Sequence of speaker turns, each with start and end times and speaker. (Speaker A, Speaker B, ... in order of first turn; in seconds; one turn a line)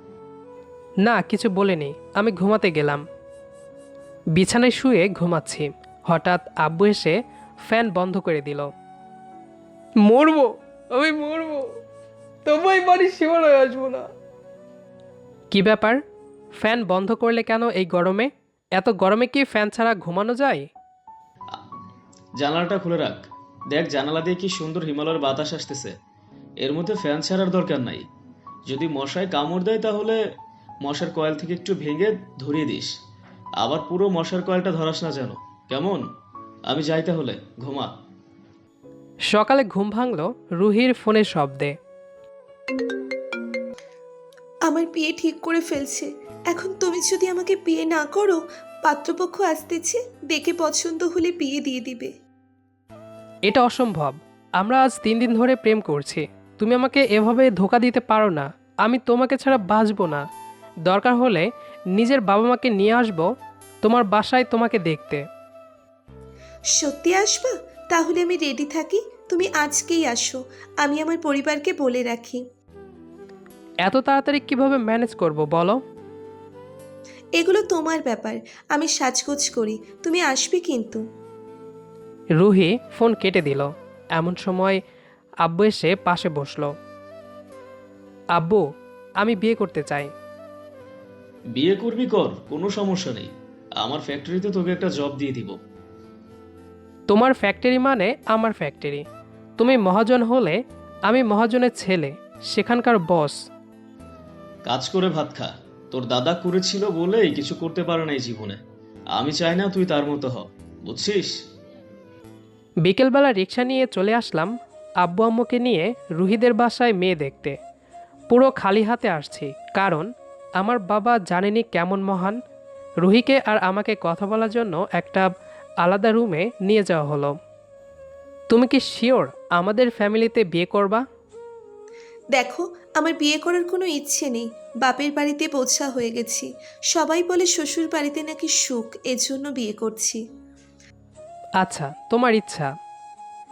Speaker A: 1.0-3.0
Speaker A: 4.3-8.7
Speaker A: 10.0-11.8
Speaker A: 12.4-14.1
Speaker A: 15.5-16.0
Speaker A: 16.5-20.7
Speaker B: 22.4-25.9
Speaker B: 26.6-28.1
Speaker B: 28.7-30.2
Speaker B: 30.8-32.9
Speaker B: 33.6-36.0
Speaker B: 36.7-37.9
Speaker A: 39.3-41.7
Speaker C: 44.7-52.1
Speaker A: 53.5-60.2
Speaker A: 60.9-63.3
Speaker A: 63.8-65.2
Speaker C: 66.8-72.4
Speaker A: 73.8-75.8
Speaker C: 77.4-81.0
Speaker A: 82.4-84.8
Speaker A: 85.4-86.7
Speaker A: 88.3-88.6
Speaker A: 89.2-90.1
Speaker B: 91.5-95.6
Speaker A: 97.1-99.0
Speaker A: 99.6-103.4
Speaker B: 104.7-108.6
Speaker B: 109.1-111.3
Speaker A: 112.8-117.5
Speaker A: 118.3-122.4
Speaker A: 123.0-125.3
Speaker A: 125.8-127.3
Speaker A: 128.5-131.0
Speaker C: 132.3-140.2
Speaker A: 141.6-142.7